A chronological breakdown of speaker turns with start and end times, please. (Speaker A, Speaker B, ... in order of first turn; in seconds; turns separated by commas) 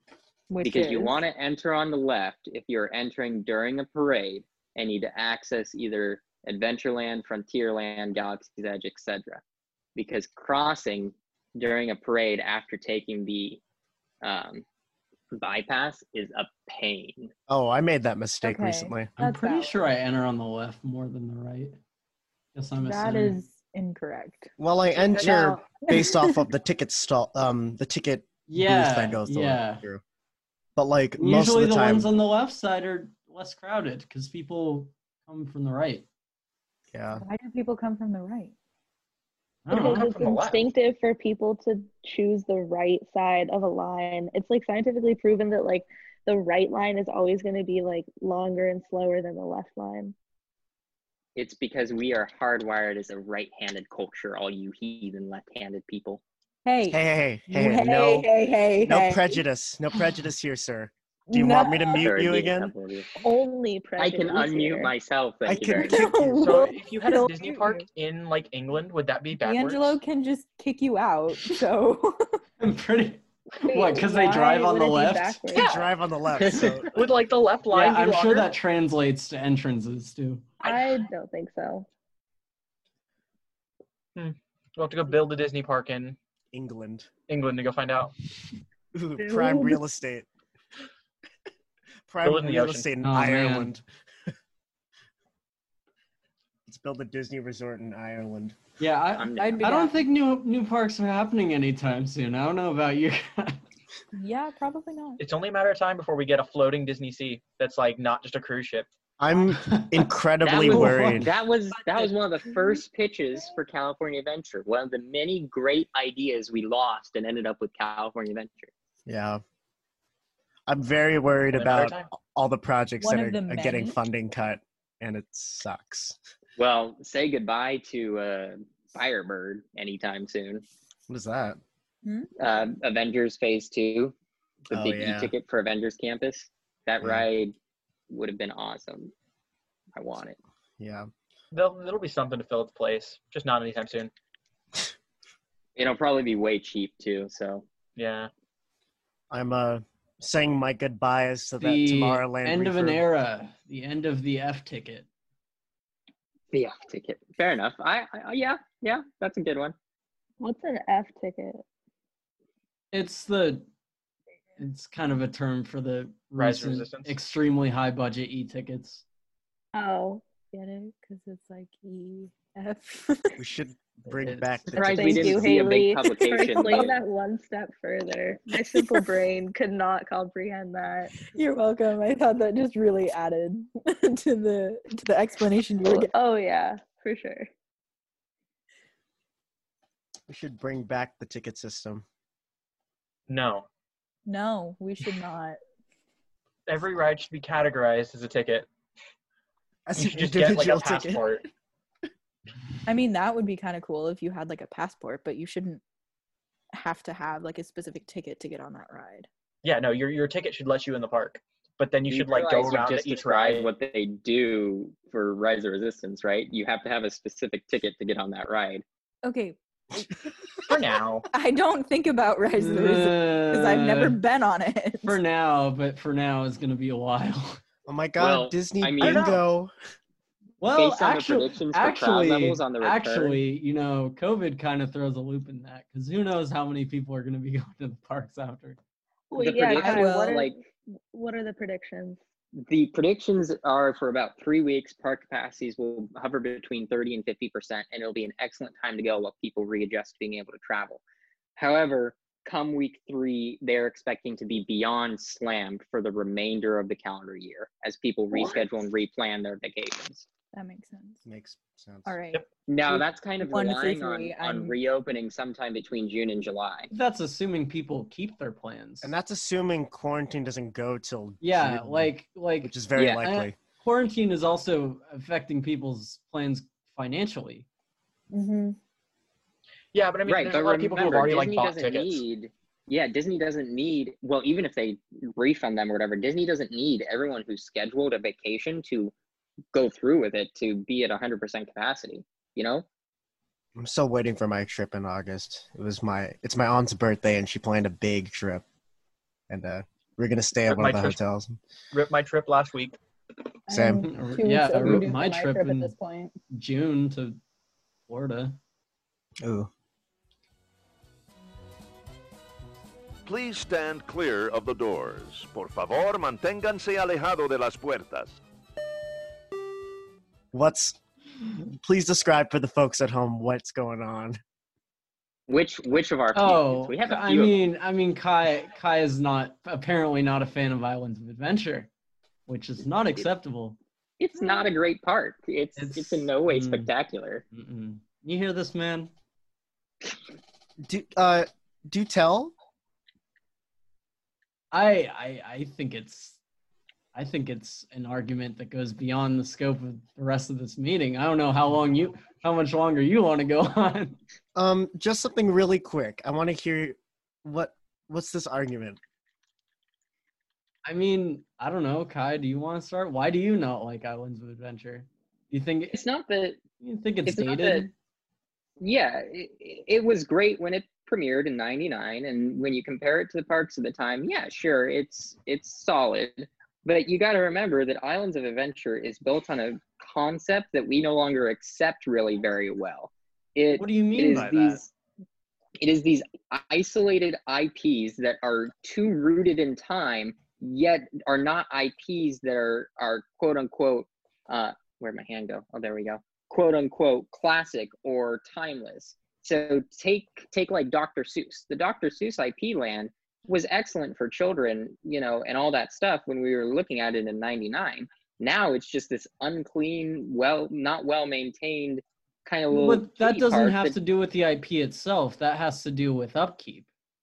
Speaker A: 0.5-1.2, Speaker B: 0.6-9.4, Speaker B: 10.0-13.6, Speaker B: 14.2-14.6, Speaker B: 15.3-17.3, Speaker C: 17.5-19.1, Speaker A: 18.4-19.8, Speaker D: 19.2-21.8, Speaker D: 22.6-23.4, Speaker A: 22.8-24.5, Speaker C: 24.6-30.0, Speaker E: 25.1-25.5, Speaker A: 25.8-26.4, Speaker D: 28.5-29.8, Speaker C: 30.8-32.1, Speaker D: 31.2-36.0, Speaker C: 36.9-37.2, Speaker A: 37.1-38.5, Speaker D: 39.7-40.1, Speaker F: 39.7-40.6, Speaker E: 39.7-50.1, Speaker B: 51.4-56.2, Speaker A: 56.6-59.4, Speaker C: 56.9-58.3, Speaker C: 58.8-62.7, Speaker A: 61.3-62.1, Speaker B: 62.0-63.1, Speaker E: 63.2-64.9, Speaker B: 64.0-66.1, Speaker C: 65.5-66.7, Speaker A: 65.7-67.8, Speaker F: 66.4-70.0, Speaker A: 69.4-72.4, Speaker D: 72.6-75.5, Speaker E: 73.6-75.7, Speaker F: 75.5-75.8, Speaker C: 75.5-76.9, Speaker B: 76.4-76.8, Speaker F: 76.5-78.5, Speaker D: 77.7-80.6, Speaker E: 80.6-81.9, Speaker F: 84.2-86.2, Speaker C: 86.5-87.1, Speaker F: 87.3-88.1, Speaker C: 88.9-90.3, Speaker E: 89.3-89.6, Speaker A: 89.4-89.7, Speaker C: 92.1-93.8, Speaker F: 92.2-92.9, Speaker D: 93.0-93.7, Speaker C: 96.7-98.6, Speaker D: 98.8-103.6, Speaker B: 99.2-99.7, Speaker A: 99.4-100.0, Speaker A: 104.1-105.2, Speaker F: 105.2-108.9, Speaker C: 109.2-111.3, Speaker D: 109.7-111.3, Speaker B: 110.4-118.7, Speaker A: 112.0-112.8, Speaker C: 119.1-119.4, Speaker C: 120.7-126.2, Speaker F: 121.5-122.1, Speaker A: 123.0-124.0, Speaker B: 126.6-130.7, Speaker C: 131.1-131.6, Speaker A: 132.1-132.3, Speaker B: 132.4-134.1, Speaker B: 134.7-137.5, Speaker C: 134.7-135.3, Speaker B: 138.1-139.1, Speaker B: 139.9-140.4, Speaker C: 140.8-141.1, Speaker F: 141.5-144.1, Speaker B: 145.8-147.7, Speaker F: 148.0-148.3, Speaker C: 149.3-153.0, Speaker D: 151.6-155.1, Speaker B: 156.5-159.8, Speaker E: 160.4-161.6, Speaker D: 162.9-163.7, Speaker D: 164.6-169.0, Speaker F: 166.4-167.1, Speaker E: 169.8-170.2, Speaker A: 170.5-173.4, Speaker C: 173.4-175.7, Speaker D: 174.2-174.8, Speaker B: 174.7-176.9, Speaker E: 174.8-181.1, Speaker A: 176.4-176.9, Speaker A: 178.6-179.1, Speaker A: 181.2-186.1, Speaker E: 185.9-187.5, Speaker C: 190.3-192.0, Speaker F: 193.3-193.7, Speaker A: 194.3-195.6, Speaker F: 196.7-198.7, Speaker C: 199.9-201.4, Speaker F: 200.0-201.5, Speaker A: 202.9-205.8, Speaker A: 206.7-209.3, Speaker F: 209.6-213.7, Speaker B: 212.1-218.8, Speaker A: 219.2-220.1, Speaker F: 220.6-221.3, Speaker A: 221.3-225.2, Speaker D: 222.6-224.2, Speaker D: 225.1-227.6, Speaker C: 227.8-229.7, Speaker B: 228.2-229.4, Speaker F: 229.0-229.3, Speaker D: 230.6-238.8, Speaker B: 230.8-233.4, Speaker E: 239.3-242.2, Speaker B: 239.4-240.6, Speaker A: 239.8-240.4, Speaker B: 242.7-251.0, Speaker B: 251.6-260.2, Speaker A: 260.5-261.2, Speaker C: 261.2-262.1, Speaker A: 262.1-264.8, Speaker B: 262.7-266.9, Speaker D: 266.9-269.1, Speaker C: 269.0-273.6, Speaker D: 271.4-277.7, Speaker B: 273.0-273.2, Speaker A: 278.3-278.8, Speaker F: 279.9-282.2, Speaker B: 280.3-289.1, Speaker B: 289.7-292.9, Speaker C: 293.8-298.6, Speaker C: 299.5-301.6, Speaker F: 300.7-301.2, Speaker F: 301.9-303.0, Speaker A: 303.7-306.4, Speaker C: 303.7-304.1, Speaker D: 304.0-305.9, Speaker D: 306.5-307.4, Speaker D: 308.1-308.6, Speaker C: 309.4-309.7, Speaker G: 313.2-318.4, Speaker C: 320.5-321.0, Speaker C: 321.7-324.4, Speaker B: 325.5-327.6, Speaker D: 326.4-331.9, Speaker D: 332.5-333.8, Speaker B: 334.2-337.4, Speaker D: 335.8-336.9, Speaker D: 337.5-339.1, Speaker C: 340.8-342.5, Speaker D: 344.7-346.4, Speaker D: 347.1-354.2, Speaker C: 354.6-359.0, Speaker D: 360.9-366.0, Speaker B: 365.9-366.6, Speaker D: 366.8-367.9, Speaker B: 367.2-367.9, Speaker B: 368.8-384.9, Speaker D: 383.7-384.8, Speaker B: 385.8-414.0, Speaker D: 412.7-416.9